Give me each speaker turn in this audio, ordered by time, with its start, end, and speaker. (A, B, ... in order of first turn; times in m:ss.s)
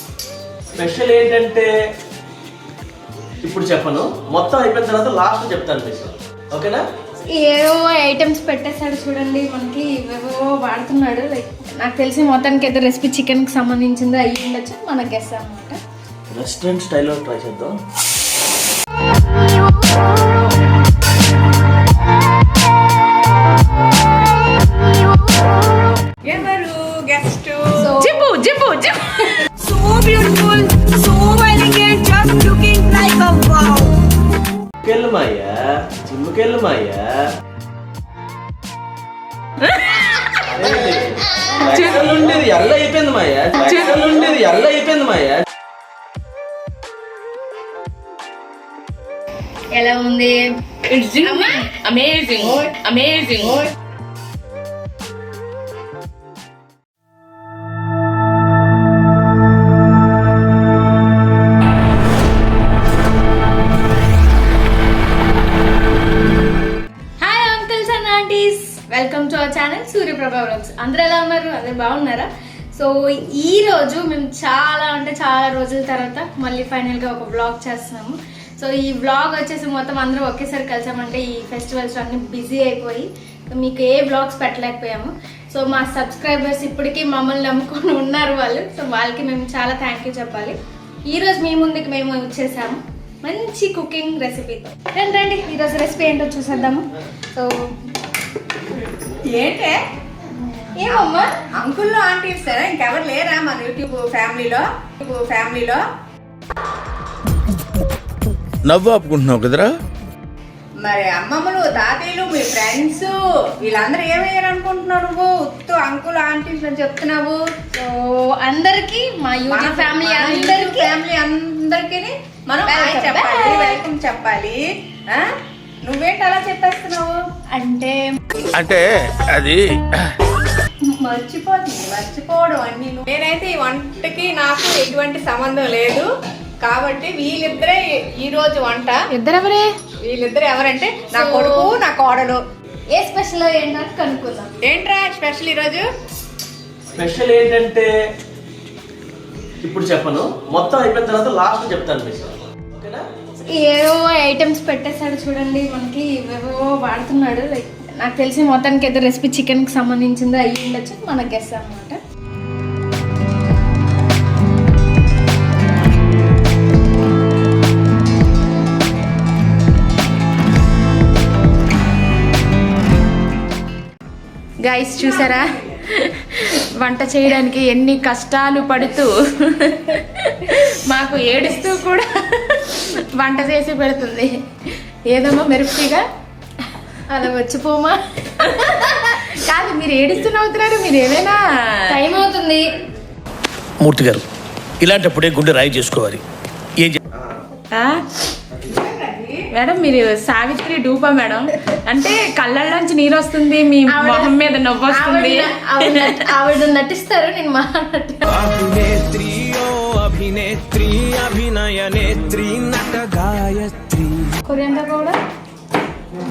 0:00.7-0:01.7 A
0:03.4-0:06.8 A
0:07.3-0:15.8 B
0:16.3-0:17.7 A
0:26.2-0:27.9 C
0:27.8-0:28.2 B
0:28.0-0:29.5 D
0:29.6-0:30.8 E
0:31.4-0:33.5 E
0:34.8-0:37.2 A
0:40.4-0:45.4 A
0:49.7-0:50.4 B
0:50.9-0:53.7 D
0:51.2-0:51.7 B
0:52.5-0:52.7 C
1:07.2-1:30.6 B
1:31.1-1:37.5 B
1:39.2-1:39.8 C
1:40.8-1:41.3 B
1:41.6-1:45.8 C
1:48.6-1:49.8 F
1:50.8-1:57.4 C
1:57.8-2:01.0 B
1:59.5-2:05.3 C
2:02.7-2:03.8 B
2:05.8-2:07.2 C
2:07.5-2:08.0 B
2:08.5-2:10.1 F
2:11.0-2:16.1 C
2:16.6-2:19.0 C
2:19.1-2:19.8 D
2:20.0-2:22.4 C
2:21.1-2:21.7 B
2:22.9-2:24.5 B
2:24.6-2:25.9 C
2:26.9-2:27.9 A
2:29.6-2:33.0 A
2:33.5-2:42.0 B
2:54.6-3:04.3 D
2:55.0-2:55.8 C
3:05.1-3:06.0 D
3:07.1-3:08.0 B
3:08.4-3:12.0 D
3:11.9-3:12.6 B
3:13.8-3:14.2 F
3:14.8-3:16.2 F
3:17.7-3:18.0 D
3:18.6-3:19.4 C
3:19.5-3:26.3 D
3:23.9-3:24.4 B
3:24.9-3:28.3 B
3:28.4-3:34.2 G
3:34.4-3:35.2 B